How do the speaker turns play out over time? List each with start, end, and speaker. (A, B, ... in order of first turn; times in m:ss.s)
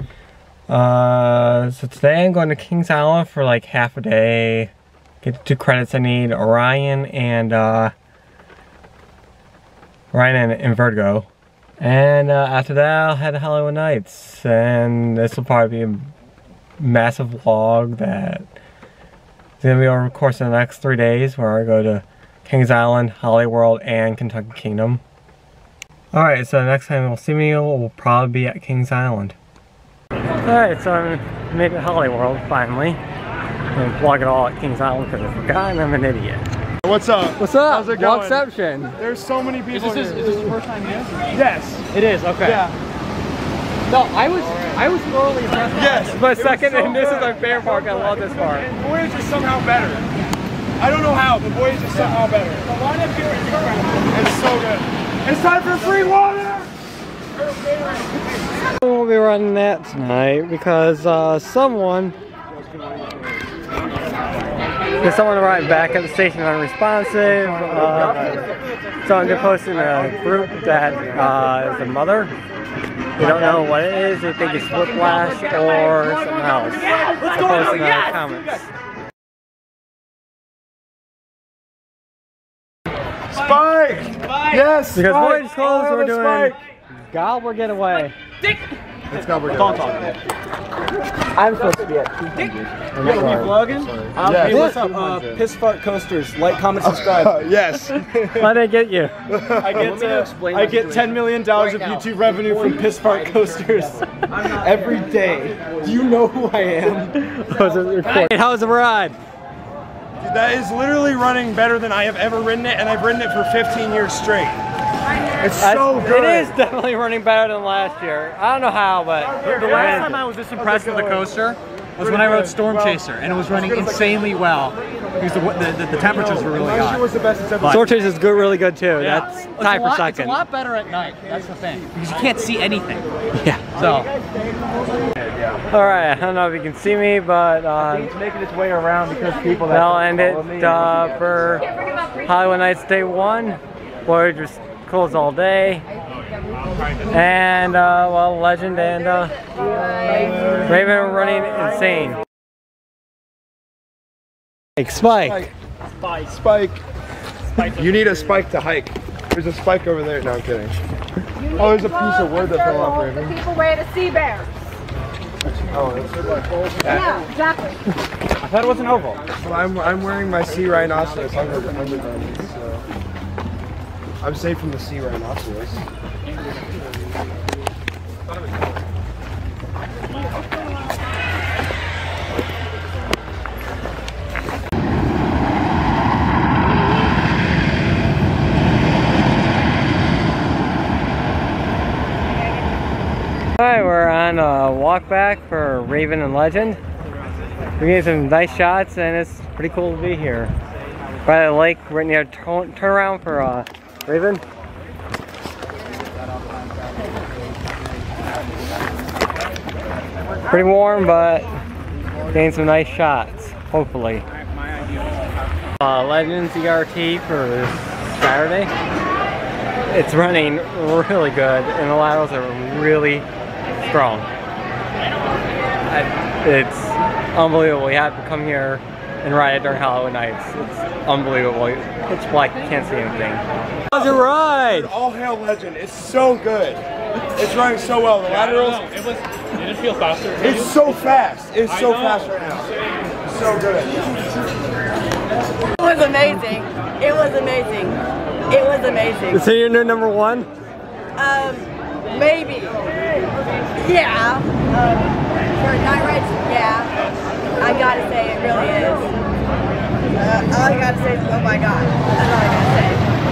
0:00.7-0:07.9 A
0:10.1-0:11.3 A
0:11.8-0:16.1 A
0:16.8-0:18.4 A
0:19.6-0:25.0 A
0:26.1-0:29.4 A
0:30.4-0:33.0 A
0:33.7-0:36.4 A
0:36.8-0:38.4 B
0:37.4-0:39.0 A
0:39.0-0:40.5 B
0:39.7-0:41.3 C
0:41.3-0:41.9 B
0:41.9-0:42.6 C
0:42.4-0:42.7 B
0:43.9-0:46.0 C
0:45.7-0:50.0 B
0:45.8-0:48.7 A
0:50.8-0:52.9 B
0:54.1-0:56.7 B
0:58.8-1:02.2 A
1:05.0-1:08.4 A
1:09.0-1:12.3 A
1:13.2-1:18.7 A
1:15.1-1:16.0 C
1:16.7-1:18.3 C
1:23.3-1:26.6 B
1:24.9-1:26.6 A
1:27.1-1:28.1 A
1:29.1-1:30.1 B
1:29.5-1:30.2 D
1:31.4-1:37.4 D
1:33.0-1:34.8 B
1:33.1-1:33.4 A
1:34.5-1:34.8 A
1:34.5-1:35.4 C
1:36.8-1:38.1 B
1:38.3-1:39.1 A
1:39.3-1:40.0 B
1:39.6-1:47.1 D
1:47.1-1:49.2 A
1:50.2-1:54.6 B
1:55.4-1:56.5 B
1:55.6-2:00.2 A
1:59.4-2:07.0 C
2:00.7-2:01.2 B
2:02.0-2:03.0 B
2:06.1-2:07.9 B
2:07.6-2:10.4 A
2:09.0-2:13.0 C
2:13.4-2:13.6 A
2:13.7-2:14.1 C
2:15.7-2:18.1 A
2:17.8-2:20.8 D
2:19.6-2:21.7 A
2:22.2-2:25.8 A
2:27.1-2:29.4 A
2:30.0-2:30.4 E
2:30.1-2:30.7 B
2:30.5-2:32.2 A
2:34.8-2:35.5 A
2:35.1-2:35.5 B
2:36.2-2:36.8 B
2:37.6-2:40.8 B
2:41.4-2:43.4 B
2:41.6-2:44.5 F
2:45.6-2:46.5 B
2:46.8-2:47.1 D
2:46.8-2:47.3 E
2:46.9-2:47.8 F
2:48.4-2:49.2 D
2:49.3-2:52.8 B
2:54.2-2:55.8 B
3:13.6-3:16.8 A
3:17.8-3:20.5 A
3:21.2-3:24.4 A
3:30.5-3:31.5 A
3:32.3-3:34.2 A
3:35.8-3:38.7 A
3:39.9-3:43.2 A
3:43.8-3:44.3 A
3:45.9-3:54.9 A
3:53.9-3:56.8 B
3:57.4-3:58.9 B
3:59.7-4:00.4 C
4:00.4-4:02.7 B
4:03.2-4:04.0 B
4:05.8-4:09.4 E
4:09.3-4:10.5 A
4:11.2-4:12.9 E
4:13.8-4:16.9 E
4:17.6-4:19.1 E
4:20.2-4:23.0 E